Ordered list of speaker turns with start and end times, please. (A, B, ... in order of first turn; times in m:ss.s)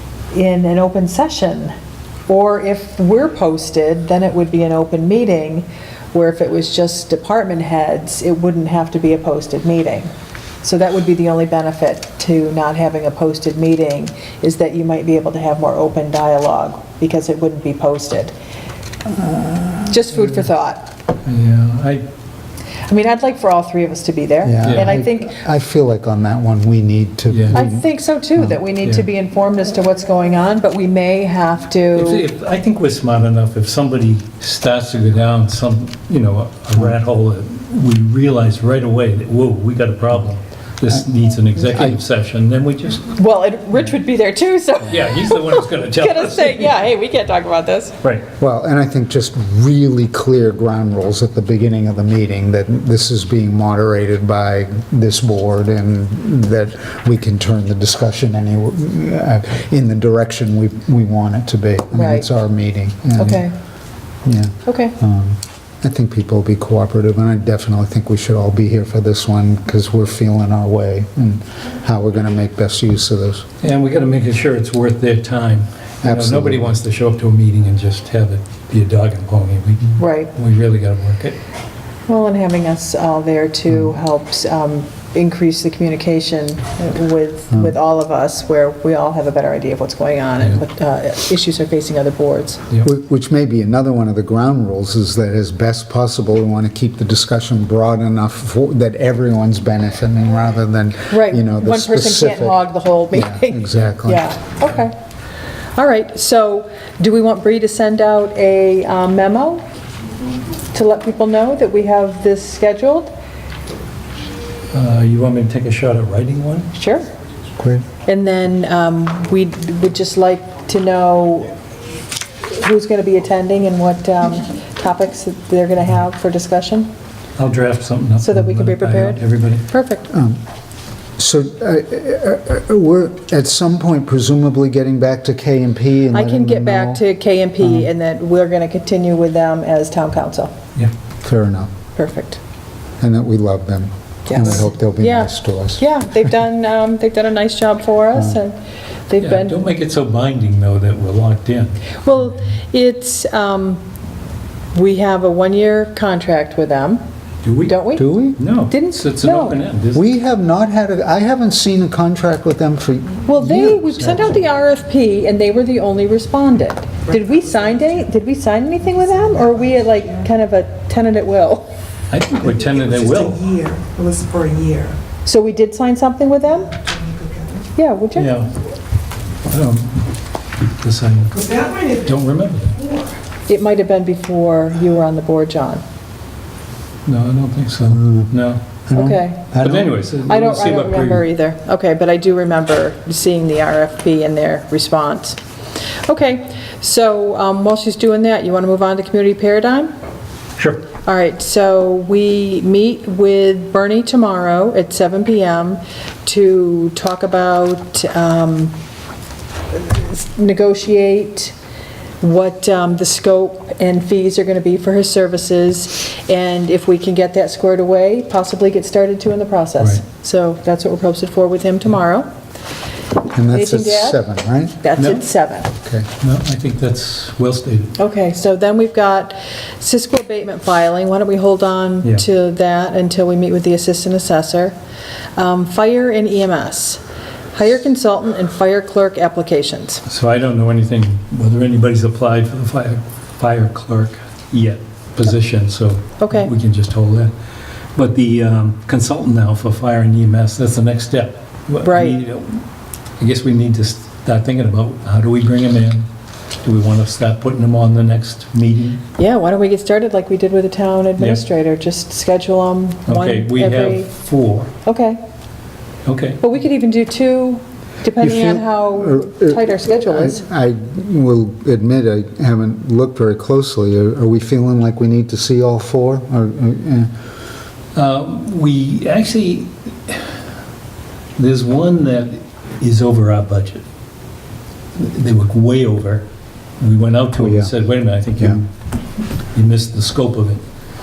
0:00.3-0:01.7 A
0:02.3-0:10.1 A
0:10.6-0:18.3 A
0:19.1-0:20.1 B
0:19.9-0:20.9 A
0:21.3-0:22.0 C
0:22.9-0:25.4 A
0:24.4-0:28.6 B
0:27.3-0:27.6 C
0:27.5-0:32.2 A
0:32.0-0:43.1 C
0:41.6-0:42.0 B
0:43.1-0:48.0 A
0:44.9-0:46.7 C
0:48.4-1:03.5 B
1:01.9-1:02.3 A
1:03.2-1:03.6 A
1:04.2-1:13.4 B
1:04.6-1:05.0 A
1:13.6-1:21.4 C
1:16.0-1:16.7 B
1:20.0-1:20.3 A
1:22.1-1:32.6 A
1:32.8-1:44.4 B
1:41.1-1:44.9 A
1:45.8-1:49.6 A
1:50.7-1:53.1 A
1:54.7-1:56.7 C
1:56.7-1:57.1 A
1:57.6-1:57.8 B
1:58.0-2:01.6 A
2:02.4-2:06.9 A
2:07.4-2:09.6 C
2:08.2-2:10.1 A
2:10.1-2:10.4 B
2:11.2-2:17.0 B
2:16.1-2:20.5 A
2:17.6-2:17.9 B
2:21.2-2:21.7 B
2:22.0-2:22.4 A
2:23.0-2:25.9 B
2:24.3-2:28.6 A
2:29.1-2:29.7 A
2:29.2-2:32.0 C
2:32.0-2:33.8 A
2:34.7-2:37.0 A
2:37.4-2:37.8 C
2:37.7-2:38.2 A
2:38.0-2:38.4 B
2:38.4-2:40.0 C
2:38.7-2:39.6 A
2:40.0-2:44.4 B
2:43.3-2:51.7 A
2:52.1-2:53.5 C
2:52.6-2:55.0 D
2:55.2-2:56.8 A
2:56.8-2:57.6 D
2:57.8-2:58.4 A
2:58.2-2:58.5 C
2:59.5-3:00.0 C
3:00.8-3:02.8 C
3:01.4-3:02.0 D
3:03.5-3:05.8 A
3:07.1-3:08.6 C
3:07.9-3:08.3 B
3:08.9-3:09.9 B
3:09.0-3:09.4 A
3:09.6-3:11.2 C
3:10.2-3:15.4 A
3:16.1-3:19.9 A
3:20.6-3:20.8 C
3:21.0-3:28.7 A
3:29.7-3:31.5 A
3:32.2-3:42.3 A
3:43.3-3:44.8 B
3:43.5-3:44.2 A
3:44.8-3:45.7 A
3:45.0-3:45.2 C
3:45.8-3:46.1 B
3:46.2-3:48.0 C
3:48.0-3:54.8 A
3:55.4-3:57.0 A
3:57.5-4:00.0 A
4:00.1-4:07.3 C
4:06.2-4:06.5 A
4:08.0-4:12.6 C
4:11.8-4:12.2 A
4:13.2-4:16.1 C
4:16.6-4:19.0 C
4:19.2-4:24.1 A
4:23.1-4:24.7 C
4:24.8-4:25.2 A
4:26.1-4:26.4 C
4:26.4-4:30.4 A
4:28.2-4:37.1 B
4:38.0-4:40.4 C
4:41.4-4:43.8 C
4:45.0-4:46.2 C
4:46.8-4:48.7 C
4:47.4-4:47.7 B
4:48.4-4:48.6 B
4:49.5-4:50.6 C